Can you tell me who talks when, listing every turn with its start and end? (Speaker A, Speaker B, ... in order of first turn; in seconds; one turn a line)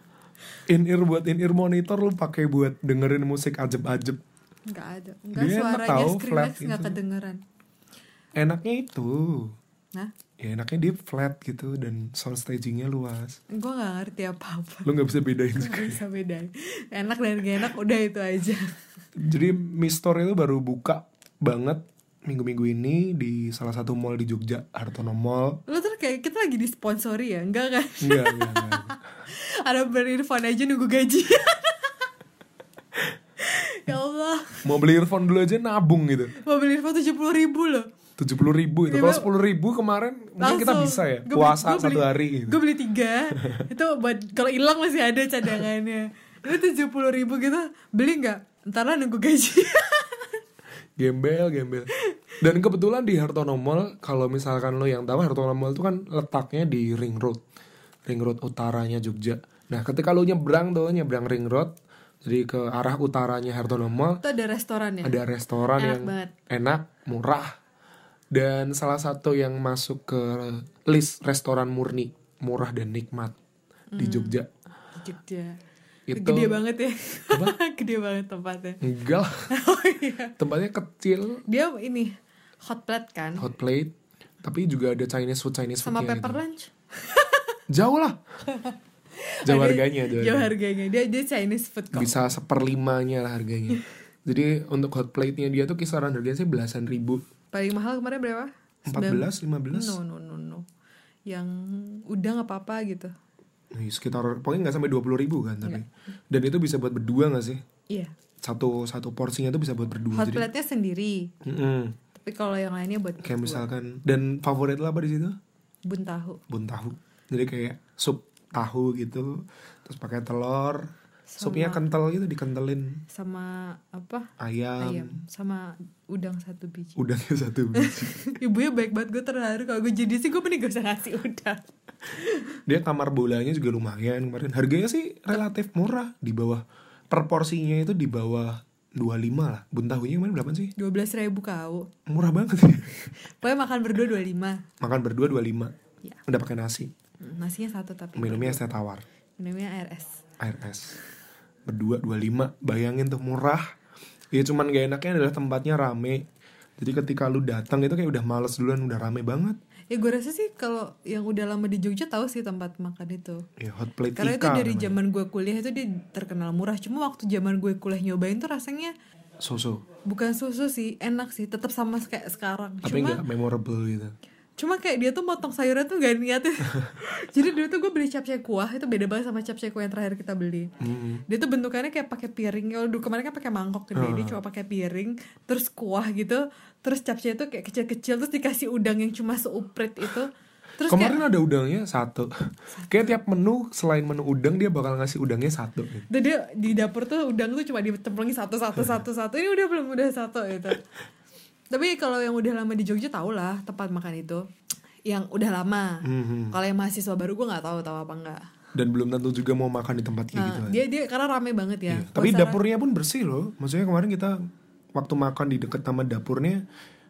Speaker A: 0.7-4.2
Speaker B: 4.7-7.4
Speaker A: 5.3-7.0
Speaker A: 8.4-9.6
Speaker A: 10.4-13.4
Speaker B: 13.5-14.9
Speaker A: 14.8-16.0
Speaker B: 15.5-18.8
Speaker A: 19.2-25.6
Speaker B: 25.7-32.1
Speaker A: 28.0-29.0
Speaker B: 33.4-34.7
Speaker A: 34.6-36.4
Speaker B: 36.4-37.9
Speaker A: 38.2-42.6
Speaker B: 38.9-39.3
Speaker B: 40.4-50.4
Speaker A: 43.4-43.6
Speaker A: 51.0-57.4
Speaker A: 58.1-64.2
Speaker B: 64.2-65.2
Speaker A: 65.0-67.5
Speaker B: 65.8-66.3
Speaker A: 68.3-73.4
Speaker B: 73.9-74.4
Speaker A: 74.0-74.5
Speaker B: 75.0-75.6
Speaker A: 76.1-76.6
Speaker B: 76.1-78.8
Speaker A: 77.3-77.6
Speaker A: 78.8-79.5
Speaker B: 79.5-80.3
Speaker A: 80.4-81.4
Speaker B: 81.5-83.5
Speaker A: 83.4-83.9
Speaker A: 84.4-86.4
Speaker B: 85.8-87.6
Speaker A: 87.7-88.2
Speaker B: 88.4-92.2
Speaker A: 89.5-90.5
Speaker A: 91.9-97.2
Speaker B: 97.5-100.7
Speaker A: 98.9-100.0
Speaker B: 101.3-103.1
Speaker A: 103.7-107.6
Speaker A: 108.4-110.5
Speaker B: 110.1-111.3
Speaker A: 111.4-112.0
Speaker B: 112.1-113.7
Speaker A: 113.2-115.4
Speaker B: 115.9-116.4
Speaker A: 116.5-123.0
Speaker B: 121.3-121.8
Speaker B: 123.1-127.0
Speaker A: 124.4-125.2
Speaker A: 127.0-128.2
Speaker B: 127.8-132.6
Speaker A: 132.7-140.7
Speaker B: 140.8-141.9
Speaker A: 142.1-143.1
Speaker B: 143.1-144.6
Speaker A: 144.8-145.7
Speaker A: 146.3-146.9
Speaker B: 147.2-148.6
Speaker A: 148.2-149.1
Speaker B: 149.4-150.2
Speaker A: 150.4-150.9
Speaker A: 151.7-153.7
Speaker A: 154.3-156.2
Speaker A: 156.8-159.6
Speaker B: 159.9-163.4
Speaker A: 163.6-164.9
Speaker B: 164.2-168.9
Speaker A: 169.4-169.8
Speaker B: 170.1-173.2
Speaker A: 172.8-174.1
Speaker B: 174.6-180.7
Speaker A: 180.8-181.2
Speaker B: 181.3-191.2
Speaker A: 183.9-184.4
Speaker A: 190.9-196.1
Speaker B: 192.8-193.2
Speaker B: 196.1-200.8
Speaker B: 201.7-204.4
Speaker B: 205.1-208.5
Speaker A: 206.0-206.6
Speaker A: 208.7-210.8
Speaker B: 210.3-212.6
Speaker A: 211.9-214.4
Speaker A: 214.9-216.6